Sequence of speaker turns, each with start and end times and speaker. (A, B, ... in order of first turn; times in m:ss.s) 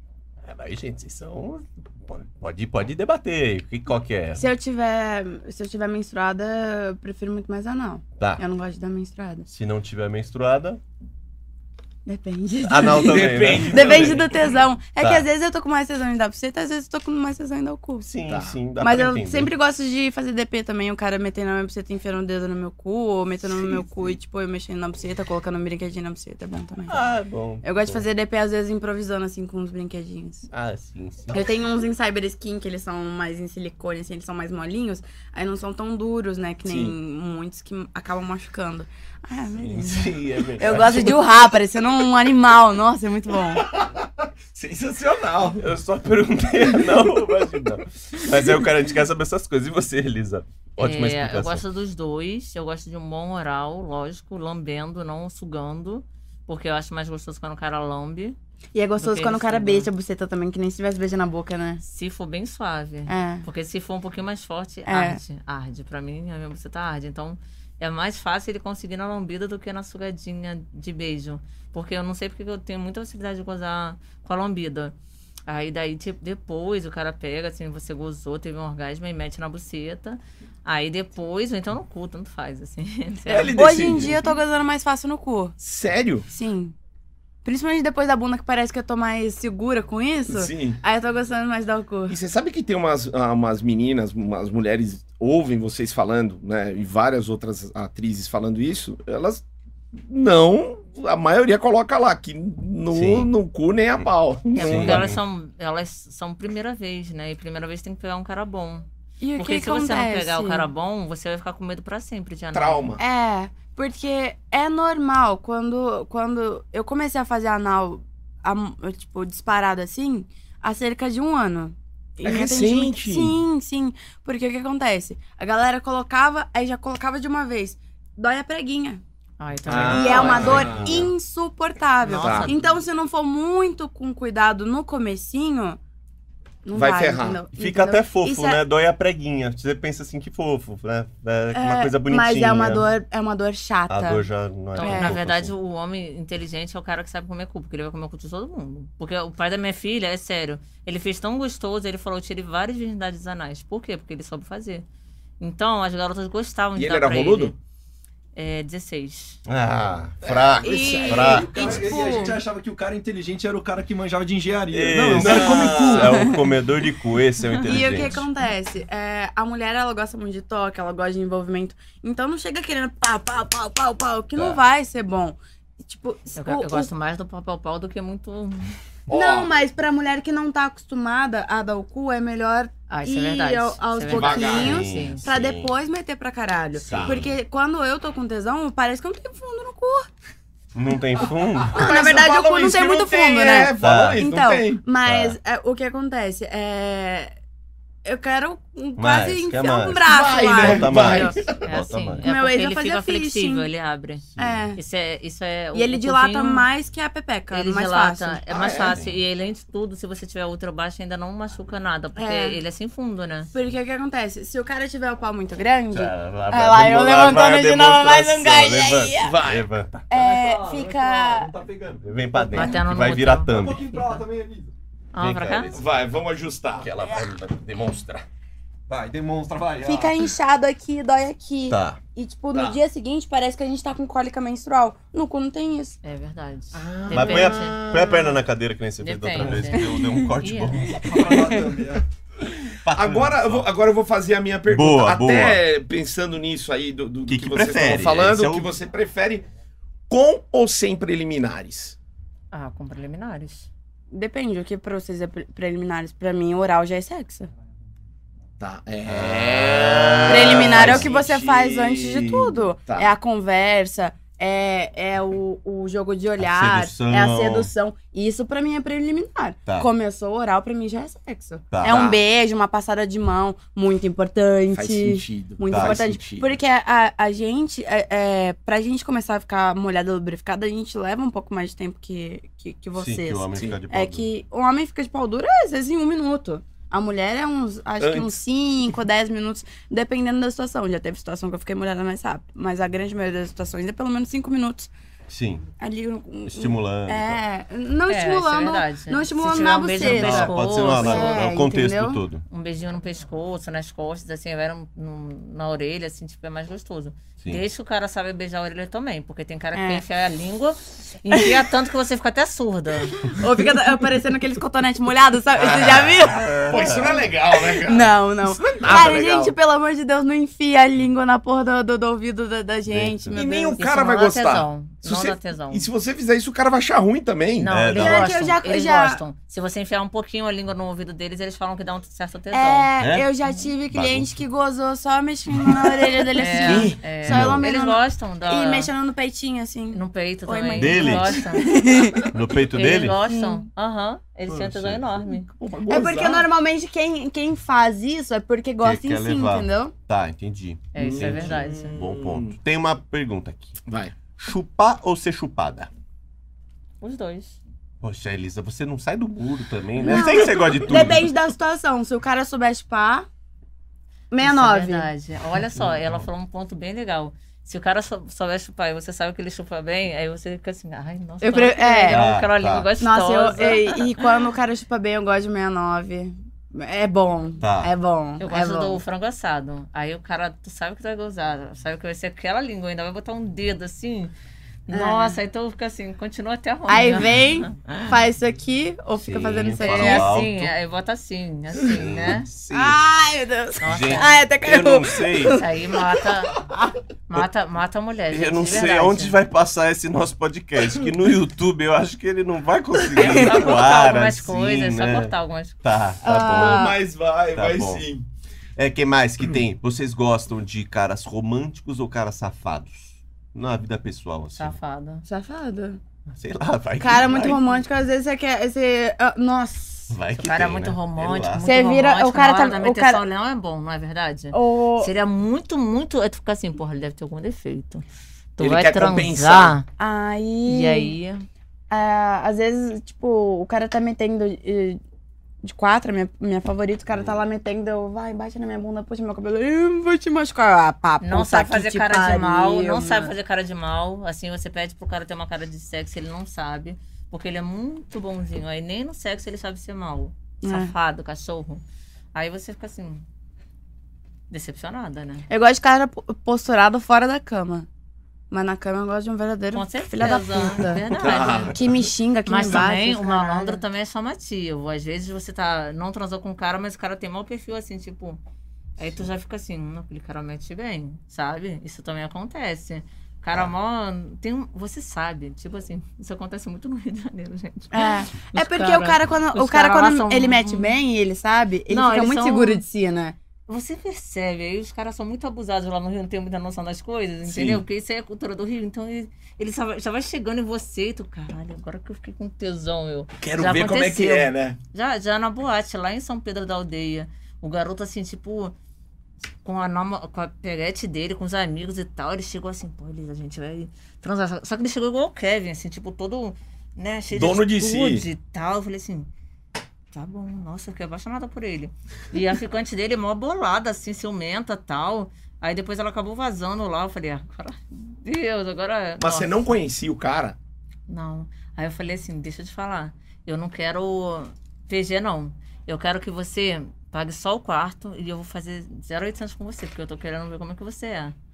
0:00.4-0:04.5 A
0:04.4-0:09.5 B
0:09.5-0:10.8 A
0:12.1-0:18.1 B
0:12.6-0:14.2 A
0:12.9-0:14.3 C
0:15.0-0:15.3 A
0:18.0-0:19.5 A
0:18.3-0:18.6 C
0:18.8-0:27.0 B
0:23.6-0:24.1 C
0:26.9-0:28.0 A
0:27.6-0:30.5 B
0:30.5-0:31.4 A
0:31.3-0:43.6 B
0:36.7-0:37.0 C
0:39.6-0:41.2 A
0:43.6-0:45.6 C
0:45.6-0:51.6 A
0:50.8-0:58.4 D
0:58.7-1:01.8 B
0:59.0-0:59.9 D
1:01.8-1:15.0 D
1:03.1-1:03.4 B
1:04.9-1:05.2 B
1:15.5-1:23.6 D
1:23.3-1:24.2 C
1:23.3-1:25.6 B
1:25.6-1:26.3 C
1:26.3-1:26.8 B
1:27.4-1:32.2 B
1:30.3-1:30.8 C
1:32.1-1:39.4 C
1:39.9-1:45.1 C
1:42.9-1:43.3 A
1:44.0-1:45.2 A
1:44.5-1:52.9 D
1:49.2-1:50.7 B
1:52.5-1:53.0 C
1:53.0-2:09.0 B
2:02.2-2:03.4 C
2:09.4-2:10.6 D
2:09.7-2:11.1 C
2:09.7-2:11.1 A
2:09.9-2:15.8 B
2:12.0-2:12.8 D
2:12.1-2:12.5 C
2:16.6-2:18.6 B
2:16.7-2:17.4 C
2:17.6-2:22.9 A
2:21.5-2:24.3 B
2:23.9-2:25.5 A
2:24.8-2:34.9 D
2:24.8-2:25.2 B
2:35.4-2:37.6 D
2:36.8-2:37.6 C
2:38.4-2:39.4 D
2:39.5-2:42.0 A
2:40.2-2:42.4 C
2:40.6-2:42.4 B
2:41.0-2:46.3 E
2:44.7-2:48.2 A
2:45.2-2:46.1 C
2:46.0-2:46.4 B
2:47.6-2:56.9 B
2:56.4-2:58.8 D
2:59.1-2:59.6 C
2:59.1-3:10.1 B
3:02.9-3:05.2 D
3:04.1-3:04.8 C
3:04.4-3:05.7 A
3:06.8-3:07.4 A
3:06.9-3:07.3 C
3:10.8-3:11.8 A
3:11.7-3:14.9 C
3:11.7-3:17.3 B
3:13.8-3:14.3 A
3:15.0-3:15.4 A
3:18.0-3:21.4 B
3:19.0-3:22.3 A
3:20.0-3:21.6 C
3:21.6-3:26.7 D
3:22.2-3:23.7 B
3:24.4-3:24.7 A
3:24.4-3:24.8 B
3:25.7-3:28.5 B
3:27.5-3:33.5 D
3:28.5-3:29.0 C
3:28.9-3:29.2 A
3:32.2-3:32.6 B
3:33.5-3:39.4 B
3:35.9-3:40.1 A
3:39.2-3:39.7 C
3:40.1-3:41.5 B
3:40.1-3:42.5 E
3:42.0-3:43.8 A
3:42.5-3:44.2 D
3:43.5-3:44.7 E
3:45.1-3:45.8 D
3:45.2-3:45.8 A
3:45.7-3:46.9 C
3:46.8-3:48.2 A
3:48.9-3:50.2 E
3:49.8-3:56.0 B
3:51.7-3:52.0 A
3:52.5-3:52.8 C
3:56.0-3:57.8 D
3:56.7-3:58.4 C
3:57.1-4:01.3 A
3:59.0-4:00.9 D
3:59.8-4:00.3 B
4:00.9-4:02.0 E
4:01.1-4:01.6 B
4:02.8-4:03.7 A
4:02.9-4:09.5 C
4:04.7-4:05.6 A
4:07.3-4:08.7 A
4:10.1-4:12.0 C
4:12.5-4:13.7 D
4:14.1-4:17.5 B
4:18.6-4:23.1 C
4:19.1-4:21.1 A
4:20.3-4:54.9 B
4:26.4-4:27.7 A
4:31.7-4:32.1 A
4:31.8-4:32.2 C
4:34.7-4:36.6 C
4:35.7-4:36.0 A
4:43.0-4:44.3 A
4:48.0-4:48.4 C
4:55.3-4:55.7 A
4:55.8-5:02.2 B
4:56.5-4:57.4 A
4:58.1-5:01.4 D
5:00.0-5:02.4 A
5:02.5-5:13.3 D
5:09.7-5:10.0 B
5:11.3-5:11.6 B
5:13.2-5:23.8 B
5:15.6-5:16.2 C
5:15.9-5:17.3 A
5:16.7-5:19.6 C
5:22.9-5:23.4 A
5:23.4-5:27.7 C
5:23.7-5:25.9 D
5:27.6-5:32.9 D
5:27.7-5:28.3 A
5:27.9-5:29.2 B
5:32.5-5:42.4 B
5:33.0-5:33.3 A
5:33.9-5:34.3 A
5:35.5-5:35.8 A
5:36.4-5:38.9 D
5:36.6-5:37.0 C
5:37.2-5:37.7 A
5:39.9-5:41.7 D
5:40.8-5:41.4 A
5:42.3-5:43.2 A
5:42.7-5:45.5 D
5:43.2-5:43.7 B
5:44.5-5:45.3 A
5:45.5-5:46.5 C
5:45.9-5:49.9 B
5:48.8-5:53.8 A
5:50.9-5:52.0 D
5:51.0-5:52.6 C
5:53.9-5:54.2 C
5:54.4-5:55.9 A
5:57.0-5:57.6 D
5:58.0-6:01.3 A
6:00.0-6:03.3 B
6:04.3-6:05.1 B
6:04.4-6:14.2 D
6:11.4-6:12.3 B
6:12.1-6:12.9 A
6:13.0-6:19.0 B
6:17.6-6:17.9 A
6:18.4-6:24.3 D
6:24.9-6:28.1 D
6:24.9-6:25.4 B
6:26.9-6:30.3 B
6:29.2-6:30.7 A
6:29.8-6:32.5 D
6:31.9-6:33.0 A
6:32.7-6:35.7 B
6:33.8-6:34.4 D
6:33.8-6:35.6 A
6:35.6-6:36.5 D
6:37.3-6:39.4 D
6:38.3-6:46.9 A
6:43.1-6:45.8 D
6:43.2-6:43.4 B
6:46.2-6:47.0 B
6:46.5-6:48.2 C
6:47.5-6:48.1 A
6:48.8-6:54.8 A
6:54.6-6:55.2 D
6:55.3-6:56.0 B
6:56.3-6:57.7 A
6:57.0-7:00.1 B
7:00.1-7:01.7 A
7:00.4-7:08.0 D
7:01.6-7:03.2 B
7:04.5-7:05.1 B
7:08.6-7:09.9 D
7:08.6-7:09.8 C
7:09.9-7:11.2 B
7:10.7-7:11.4 D
7:11.9-7:15.0 B
7:15.6-7:23.3 B
7:21.2-7:31.8 D
7:30.6-7:30.9 B
7:32.4-7:33.2 D
7:34.5-7:35.5 D
7:35.5-7:37.9 B
7:38.5-7:43.8 B
7:39.7-7:41.8 D
7:41.2-7:41.9 C
7:42.5-7:48.4 D
7:49.0-8:01.0 D
7:57.9-8:03.4 B
8:01.9-8:02.8 D
8:03.7-8:18.8 D
8:07.5-8:07.8 C
8:13.4-8:14.8 C
8:19.6-8:29.3 D
8:27.3-8:28.3 C
8:30.1-8:39.8 D
8:39.2-8:40.6 C
8:41.1-8:51.4 D